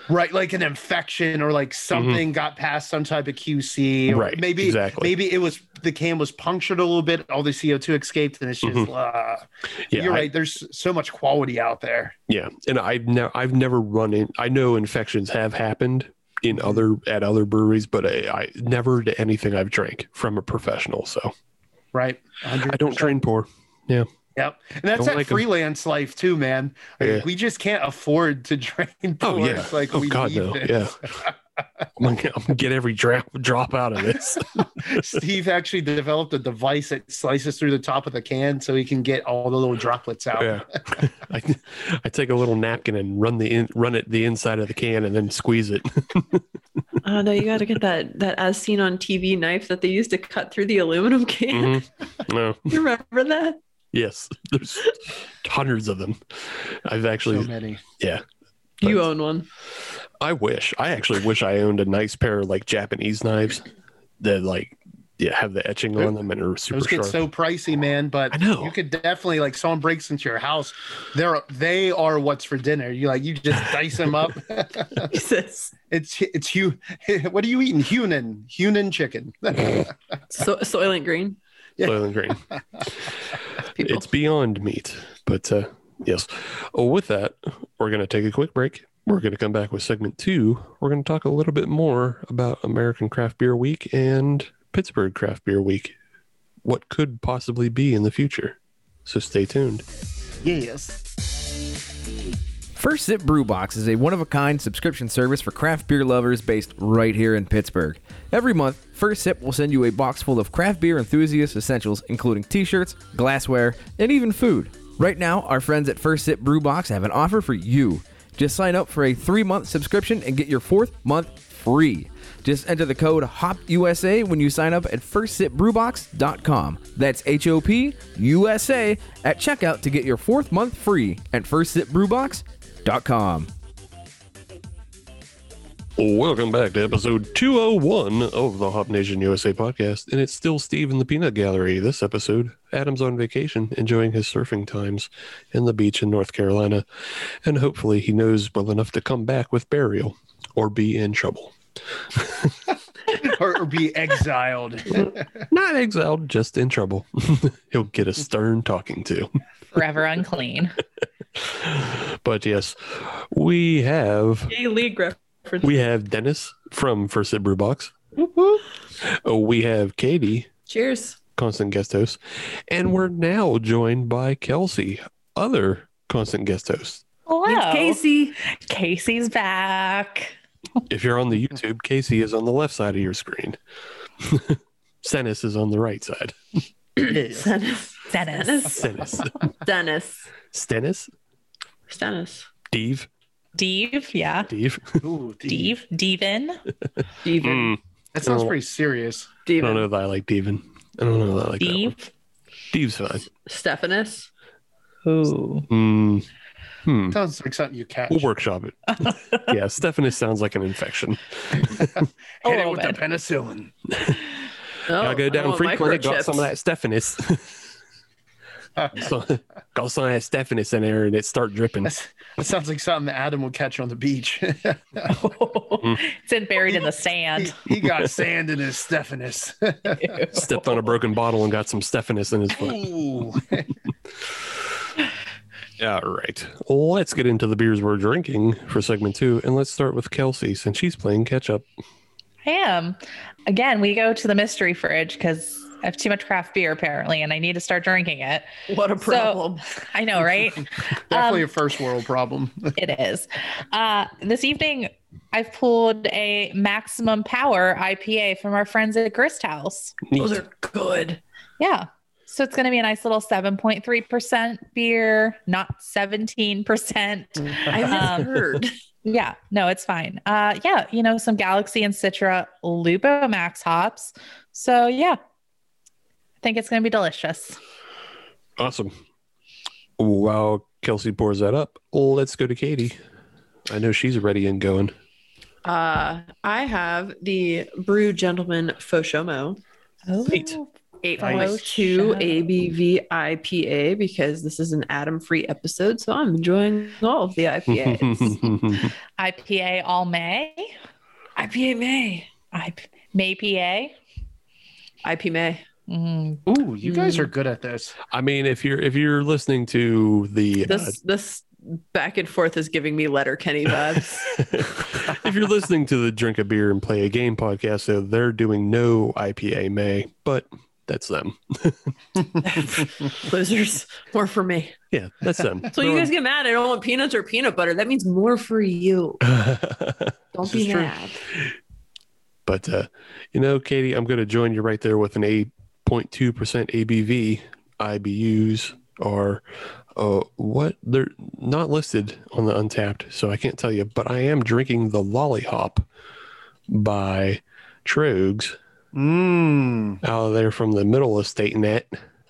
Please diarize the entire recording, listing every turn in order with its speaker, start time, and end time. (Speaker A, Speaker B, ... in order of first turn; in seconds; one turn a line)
Speaker A: 0.1-12.1
Speaker B: 1.9-2.2
Speaker B: 4.1-5.1
Speaker B: 8.6-8.9
Speaker B: 9.9-10.3
Speaker B: 12.3-21.3
Speaker A: 16.5-16.8
Speaker A: 21.9-23.2
Speaker B: 22.7-24.1
Speaker A: 24.4-31.3
Speaker B: 24.9-25.4
Speaker B: 27.0-27.3
Speaker B: 29.2-31.2
Speaker B: 32.0-35.1
Speaker A: 34.9-40.6
Speaker B: 40.4-46.4
Speaker C: 47.0-51.8
Speaker B: 51.5-52.8
Speaker C: 52.7-53.6
Speaker B: 53.9-58.2
Speaker A: 57.2-57.8
Speaker C: 58.8-59.5
Speaker B: 60.2-63.6
Speaker B: 64.2-67.2
Speaker A: 66.7-75.1
Speaker B: 68.3-68.7
Speaker C: 75.0-75.7
Speaker A: 75.9-79.9
Speaker C: 80.3-81.4
Speaker B: 81.8-82.4
Speaker C: 83.7-84.1
Speaker B: 83.8-96.0
Speaker B: 96.6-99.8
Speaker A: 100.4-101.0
Speaker D: 102.8-133.5
Speaker B: 136.0-151.5
Speaker B: 152.1-152.6
Speaker A: 153.1-155.2
Speaker B: 155.5-159.3
Speaker E: 159.7-160.8
Speaker B: 161.3-164.5
Speaker C: 164.5-165.7
Speaker B: 165.6-168.0
Speaker B: 169.0-170.5
Speaker C: 170.7-171.2
Speaker B: 171.4-177.0
Speaker E: 177.3-180.3
Speaker C: 177.5-178.3
Speaker B: 180.9-183.6
Speaker B: 184.2-186.4
Speaker C: 187.0-188.8
Speaker A: 187.0-187.5
Speaker E: 188.1-188.8
Speaker B: 188.7-189.3
Speaker C: 189.6-190.3
Speaker B: 190.5-191.1
Speaker C: 191.9-192.5
Speaker B: 192.7-193.1
Speaker E: 193.6-194.5
Speaker B: 194.5-195.0
Speaker A: 195.0-195.8
Speaker E: 195.5-196.6
Speaker C: 197.2-197.8
Speaker B: 197.4-198.5
Speaker A: 198.1-199.3
Speaker C: 199.5-199.9
Speaker B: 199.6-202.0
Speaker E: 201.6-202.0
Speaker B: 202.7-203.3
Speaker C: 203.5-204.3
Speaker E: 205.0-205.7
Speaker B: 205.7-206.2
Speaker B: 206.8-207.2
Speaker A: 207.1-208.3
Speaker B: 208.1-212.1
Speaker E: 209.0-209.3
Speaker A: 212.4-213.7
Speaker E: 212.5-213.0
Speaker B: 213.9-214.2
Speaker C: 214.9-216.5
Speaker B: 214.9-217.7
Speaker B: 218.9-221.9
Speaker A: 221.8-225.1
Speaker E: 225.1-227.6
Speaker A: 226.7-230.1
Speaker B: 227.7-228.1
Speaker C: 230.0-230.3
Speaker B: 230.3-232.9
Speaker A: 232.6-233.7
Speaker B: 235.8-241.7
Speaker E: 242.4-248.5
Speaker C: 248.7-249.6
Speaker E: 249.0-251.5
Speaker A: 251.1-252.8
Speaker E: 252.8-260.0
Speaker B: 260.1-260.4
Speaker C: 260.1-261.2
Speaker E: 261.6-268.3
Speaker C: 267.5-268.7
Speaker E: 269.0-275.2
Speaker E: 276.4-277.6
Speaker B: 278.6-278.9
Speaker B: 280.0-283.0
Speaker B: 283.7-284.9
Speaker C: 285.6-289.6
Speaker E: 290.1-292.4
Speaker B: 290.3-290.6
Speaker C: 291.0-298.4
Speaker A: 291.2-291.5
Speaker B: 297.7-298.9
Speaker E: 299.2-300.7
Speaker C: 301.4-302.3
Speaker E: 302.5-303.9
Speaker C: 305.0-305.6
Speaker E: 305.9-306.4
Speaker A: 306.5-308.0
Speaker C: 306.9-307.2
Speaker B: 308.1-310.9
Speaker C: 310.7-314.4
Speaker B: 314.3-321.9
Speaker C: 322.4-324.8
Speaker B: 324.9-326.1
Speaker C: 325.7-329.2
Speaker B: 329.2-331.5
Speaker C: 330.3-331.2
Speaker B: 332.5-345.9
Speaker B: 346.7-348.6
Speaker A: 348.9-350.0
Speaker B: 350.0-352.0